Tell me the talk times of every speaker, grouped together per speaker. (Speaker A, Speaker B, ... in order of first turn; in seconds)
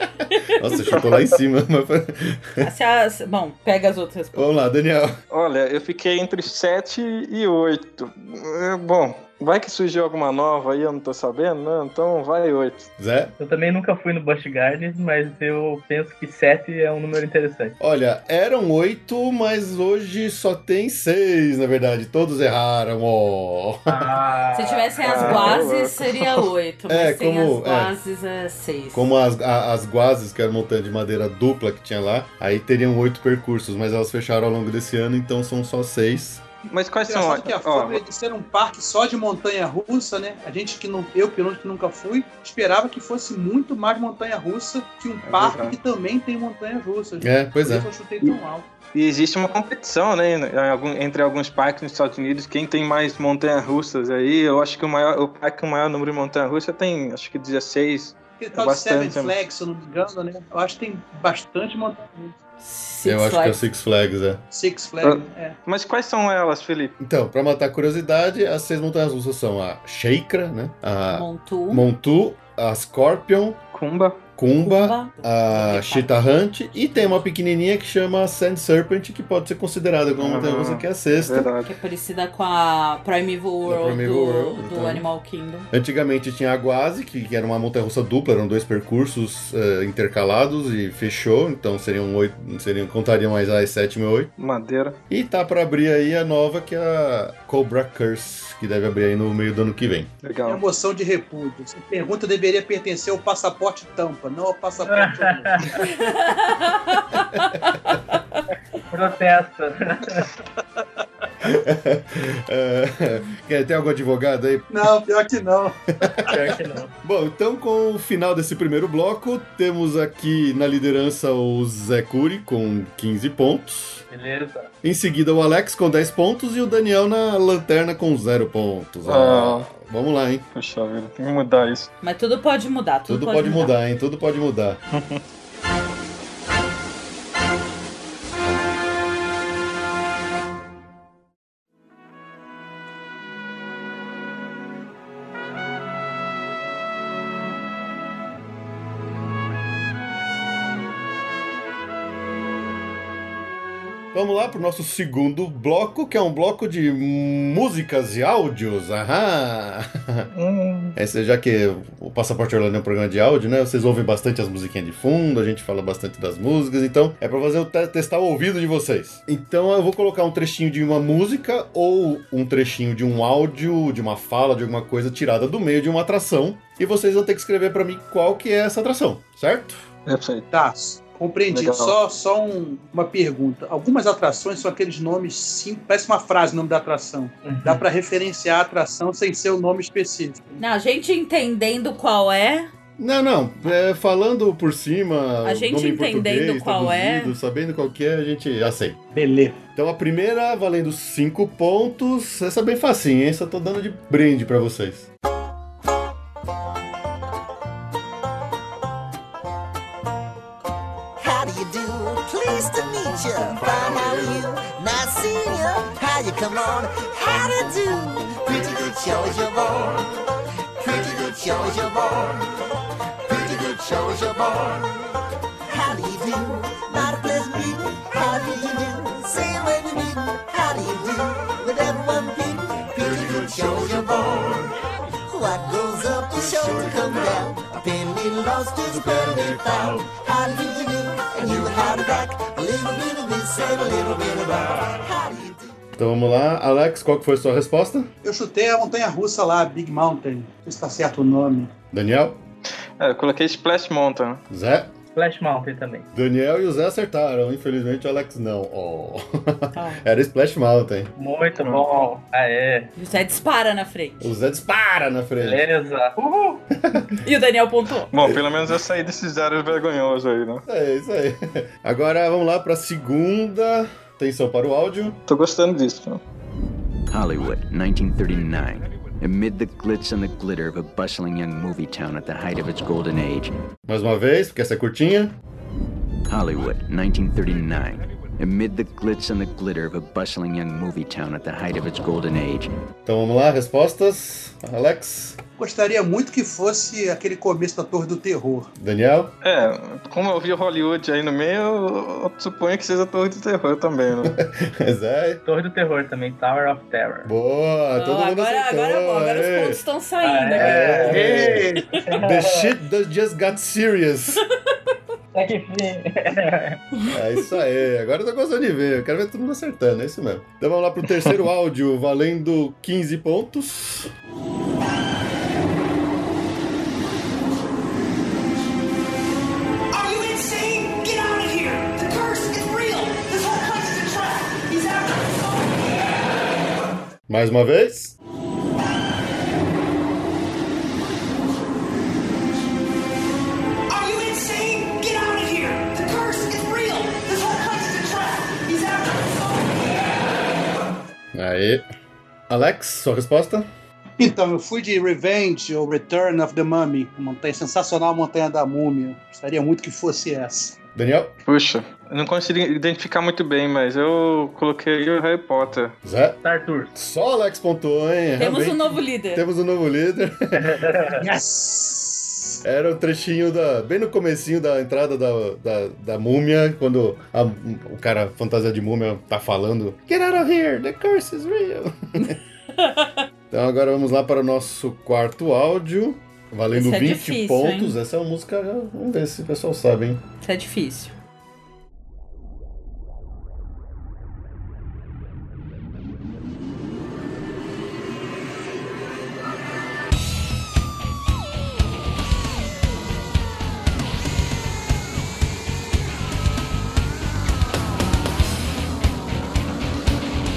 Speaker A: 0.3-0.7, 2.6-4.5, 24.5-29.1, 62.6-63.6, 71.1-71.8, 74.6-76.2, 81.6-85.7, 105.8-108.4, 132.0-133.7, 190.6-192.7, 195.4-197.3, 259.7-260.0, 263.0-264.3, 267.2-268.1, 307.9-311.8, 317.0-317.6, 368.4-369.4, 382.8-383.2, 386.7-387.9, 390.4-391.1
Speaker B: 0.5-2.7, 4.3-5.1, 13.0-13.3, 17.8-24.2, 26.9-27.9, 28.9-36.4, 47.2-47.9, 63.0-64.4, 67.0-73.6, 74.4-81.5, 83.6-85.0, 85.7-94.3, 95.1-100.1, 107.4-107.7, 111.4-114.7, 116.0-116.3, 117.0-124.0, 124.8-130.4, 133.1-134.8, 154.1-160.3, 160.9-179.9, 193.0-199.0, 199.8-205.1, 245.9-248.1, 251.9-252.4, 254.5-254.9, 256.1-261.1, 264.2-265.6, 266.7-267.2, 270.7-275.2, 283.9-285.4, 293.1-295.4, 298.8-299.3, 304.2-305.4, 307.2-309.8, 310.6-314.4, 317.1-324.1, 337.3-338.1, 351.3-351.8, 352.5-353.7, 360.9-361.3, 366.0-366.4, 366.9-370.8, 372.6-382.4, 383.5-390.2
Speaker C: 0.9-1.3, 5.3-12.9, 25.1-26.4, 36.7-38.0, 45.2-45.8, 48.9-59.4, 65.0-66.9, 73.7-74.2, 80.2-81.7, 94.4-95.0, 100.2-100.6, 129.1-129.7, 130.5-131.9, 134.9-135.2, 160.3-160.9, 180.1-180.5, 181.5-181.9, 253.0-254.4, 268.1-270.6, 275.3-276.2, 299.4-304.3, 361.4-365.9
Speaker D: 13.4-17.8, 23.9-25.6, 104.8-105.9, 108.9-110.3, 116.3-116.9, 124.1-124.7, 187.4-187.8, 255.1-256.1, 261.2-262.9, 265.4-266.6, 305.4-307.3, 310.2-311.3, 312.1-312.7, 315.3-316.8, 366.4-366.9, 370.5-371.2
Speaker E: 37.0-48.7, 58.4-62.4, 64.5-65.6, 100.5-106.0, 114.7-116.4, 180.5-190.6, 199.1-199.6, 248.2-251.7, 295.6-298.7, 311.1-311.8, 354.2-360.8, 371.1-372.6
Speaker F: 211.2-220.2, 220.8-222.5, 223.2-224.9, 225.7-234.8, 235.3-245.8
Speaker G: 277.1-283.5, 286.3-292.7
Speaker H: 329.9-336.2, 343.9-350.0